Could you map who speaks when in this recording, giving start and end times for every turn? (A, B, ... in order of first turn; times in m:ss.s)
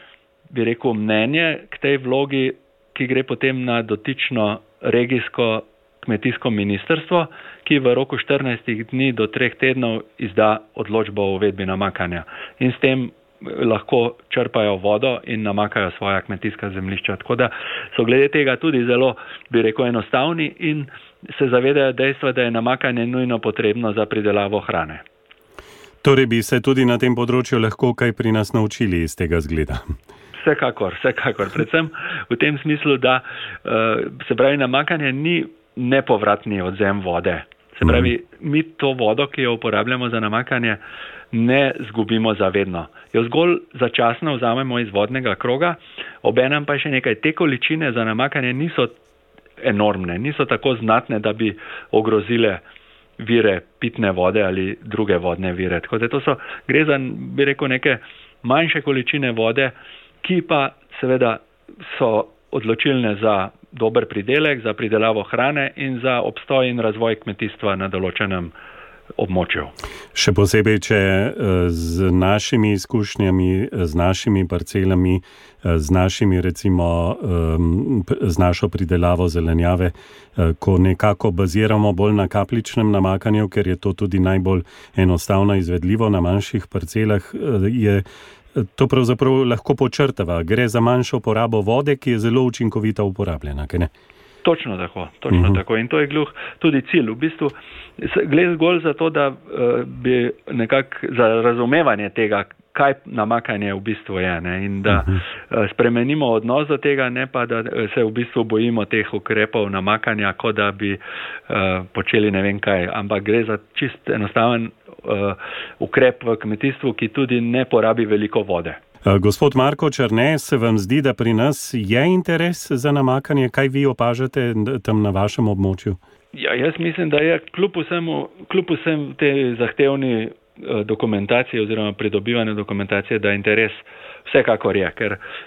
0:00.5-0:25.0 A
0:26.0-0:29.8 B
0:30.4-0:40.8 A
0:37.8-0:38.1 B
0:41.3-0:48.9 A
0:49.6-0:52.6 A
0:53.2-1:08.5 A
1:09.2-1:09.7 A
1:10.1-1:33.9 B
1:34.4-1:58.8 A
1:35.3-1:35.6 B
1:44.9-1:45.2 B
1:59.0-2:06.0 B
2:06.3-2:15.2 A